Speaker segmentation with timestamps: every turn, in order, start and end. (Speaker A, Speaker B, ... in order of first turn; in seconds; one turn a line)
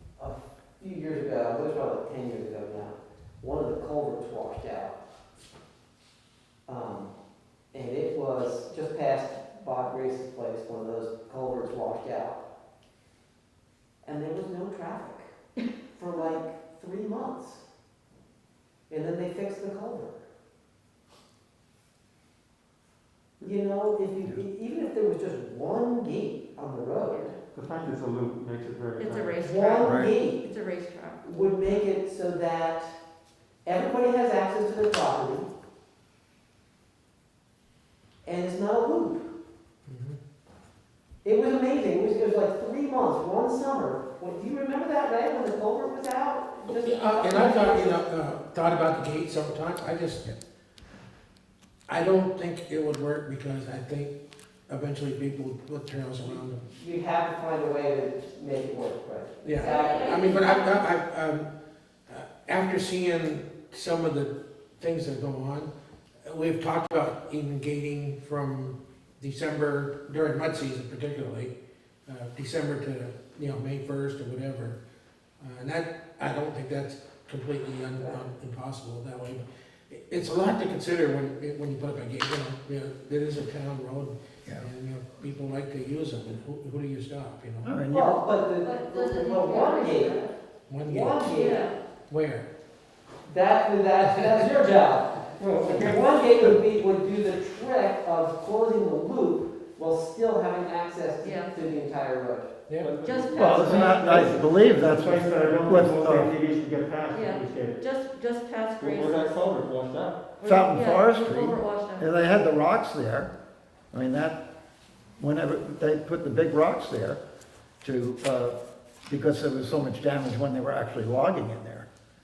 Speaker A: 0.2-5.0
Speaker A: 6.7-7.1
Speaker A: 7.7-12.4
Speaker A: 14.0-15.3
Speaker A: 15.9-17.6
Speaker A: 18.9-20.2
Speaker A: 23.4-27.3
Speaker B: 27.0-27.4
Speaker C: 27.5-29.4
Speaker B: 29.0-31.2
Speaker A: 29.4-30.4
Speaker D: 29.8-30.1
Speaker A: 31.2-32.9
Speaker A: 33.6-35.5
Speaker A: 38.2-39.3
Speaker E: 39.9-40.2
Speaker A: 41.2-48.0
Speaker E: 46.7-50.4
Speaker E: 51.9-54.1
Speaker E: 54.7-56.6
Speaker A: 56.2-60.3
Speaker E: 59.4-61.5
Speaker B: 59.5-60.9
Speaker E: 62.1-65.7
Speaker E: 66.2-71.5
Speaker E: 72.1-74.8
Speaker E: 75.4-87.7
Speaker A: 77.9-78.2
Speaker D: 87.6-88.2
Speaker A: 87.9-90.2
Speaker B: 88.6-90.3
Speaker E: 90.7-91.2
Speaker A: 90.8-91.6
Speaker B: 91.3-91.8
Speaker E: 92.1-92.5
Speaker A: 93.2-102.6
Speaker C: 95.3-96.2
Speaker B: 101.2-101.6
Speaker C: 102.8-107.8
Speaker B: 103.0-104.2
Speaker D: 103.3-106.3
Speaker A: 103.6-104.6
Speaker B: 107.1-109.4
Speaker C: 108.8-110.2
Speaker B: 110.4-112.4
Speaker D: 110.4-113.3
Speaker D: 113.9-114.4
Speaker D: 115.2-117.2
Speaker D: 117.8-121.9